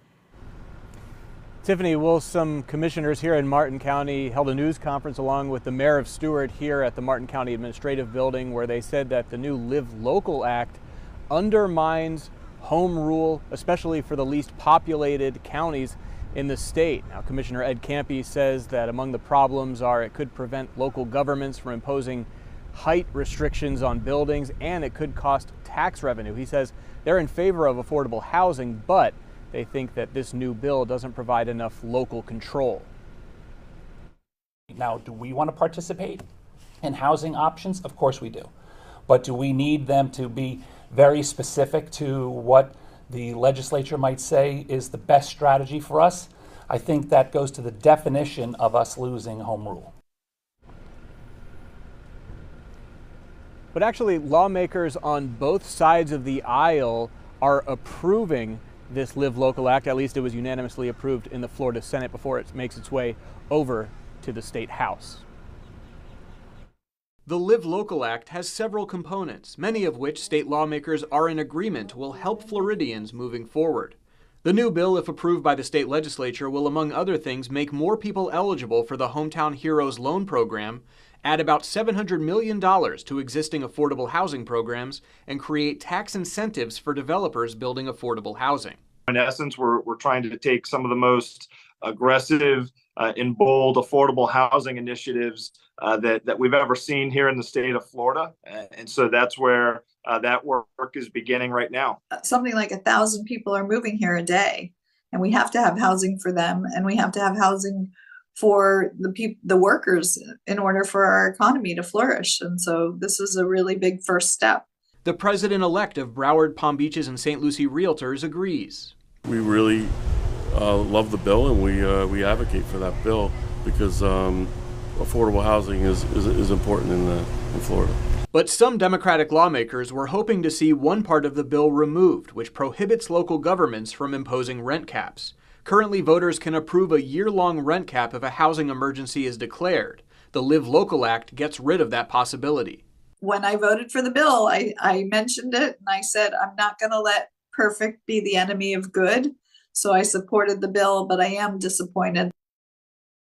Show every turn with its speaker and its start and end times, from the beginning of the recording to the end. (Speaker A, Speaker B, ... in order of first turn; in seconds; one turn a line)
Speaker A: 1.6-32.9
Speaker B: 34.7-36.2
Speaker B: 36.8-38.5
Speaker B: 39.1-49.9
Speaker A: 53.7-65.2
Speaker A: 67.3-88.8
Speaker C: 89.1-102.0
Speaker D: 102.1-114.6
Speaker A: 115.0-118.9
Speaker E: 119.3-120.0
Speaker E: 120.5-128.0
Speaker A: 128.3-142.8
Speaker D: 143.2-152.3